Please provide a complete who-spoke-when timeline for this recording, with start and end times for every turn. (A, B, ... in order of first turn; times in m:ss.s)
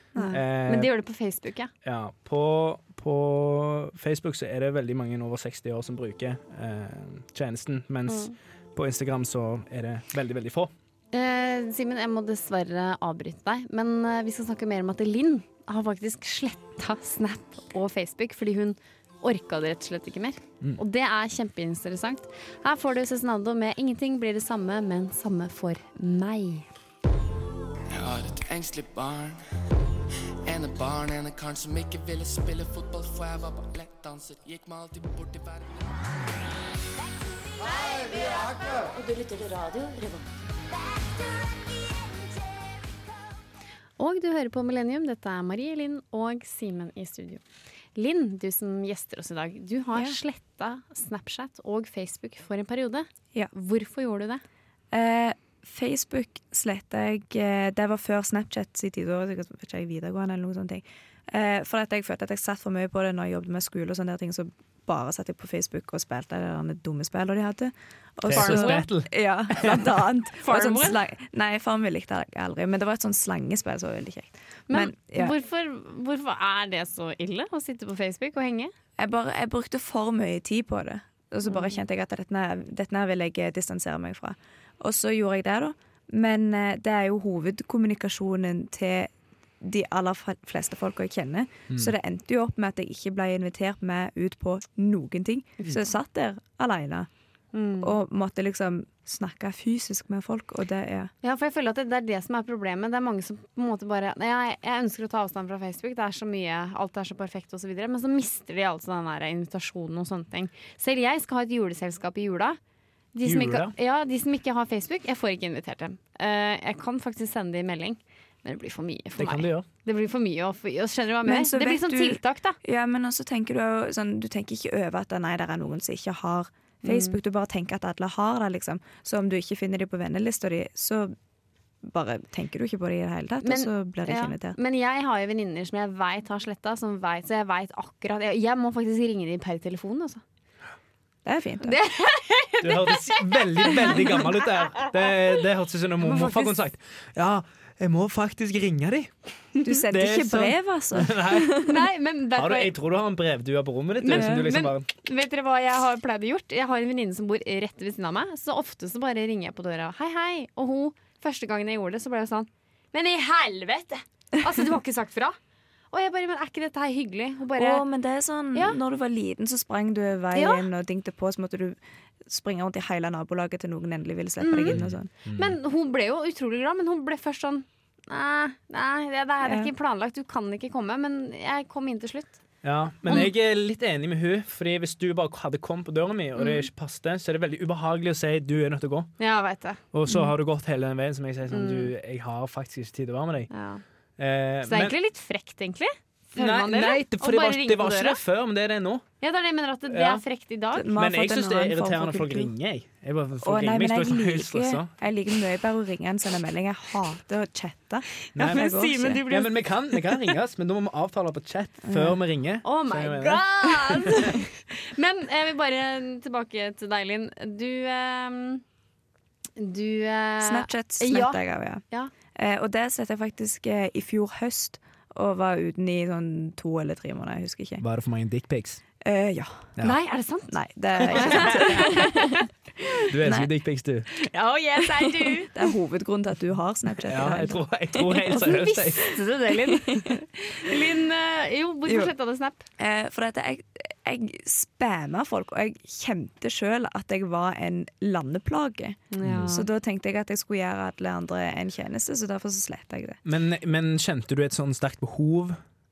0:00.2-0:01.7 A
0:00.3-0:00.9 B
0:01.8-0:10.7 B
0:08.1-0:08.3 A
0:11.1-0:26.7 A
0:27.9-0:29.4 C
0:30.4-0:36.0 C
0:38.1-0:40.3 D
0:44.0-0:47.4 A
0:48.0-0:54.4 A
0:54.9-1:15.4 E
1:08.3-1:09.8 B
1:08.3-1:08.9 A
1:10.4-1:11.0 A
1:14.7-1:18.7 A
1:19.0-1:37.1 E
1:21.5-1:21.8 A
1:37.5-1:38.0 A
1:37.8-1:41.1 E
1:41.2-1:52.6 A
1:53.1-2:02.6 A
1:53.2-1:53.7 B
1:59.2-1:59.7 B
2:01.2-2:11.2 E
2:06.8-2:07.2 A
2:11.8-2:14.6 E
2:13.4-2:20.2 A
2:21.2-2:21.8 E
2:21.6-2:24.1 A
2:22.6-2:29.1 B
2:26.0-2:26.6 A
2:29.6-2:31.8 E
2:29.9-2:31.5 B
2:31.7-2:32.7 A
2:32.4-2:34.9 B
2:34.0-2:45.4 A
2:34.1-2:34.5 E
2:45.9-2:47.8 A
2:47.6-2:55.1 E
2:50.3-2:50.7 A
2:54.4-3:02.4 A
2:54.7-2:55.6 B
2:59.4-2:59.7 E
3:02.6-3:09.1 B
3:06.4-3:06.6 A
3:09.2-3:09.8 A
3:09.9-3:13.5 B
3:11.5-3:11.9 A
3:13.5-3:13.8 A
3:14.2-3:15.0 B
3:14.7-3:18.2 A
3:16.4-3:19.0 B
3:19.2-3:20.9 A
3:19.9-3:20.2 B
3:20.8-3:22.5 E
3:21.0-3:24.9 B
3:23.4-3:29.2 E
3:28.3-3:30.2 A
3:28.4-3:28.7 B
3:29.3-3:34.2 B
3:31.8-3:32.2 E
3:32.6-3:38.6 A
3:39.6-3:42.1 A
3:40.4-3:41.8 E
3:42.4-3:47.8 E
3:47.8-3:48.8 B
3:49.0-3:49.7 E
3:49.8-3:50.6 A
3:50.5-3:52.3 E
3:51.1-3:52.4 A
3:51.3-3:51.9 B
3:53.1-3:54.1 B
3:53.2-3:53.5 E
3:54.3-3:55.5 A
3:54.9-3:58.5 E
3:57.1-3:59.2 B
3:58.3-4:02.6 A
3:59.7-4:00.2 E
4:01.9-4:02.1 E
4:02.8-4:13.2 E
4:09.1-4:09.7 A
4:09.2-4:09.5 B
4:13.2-4:15.6 B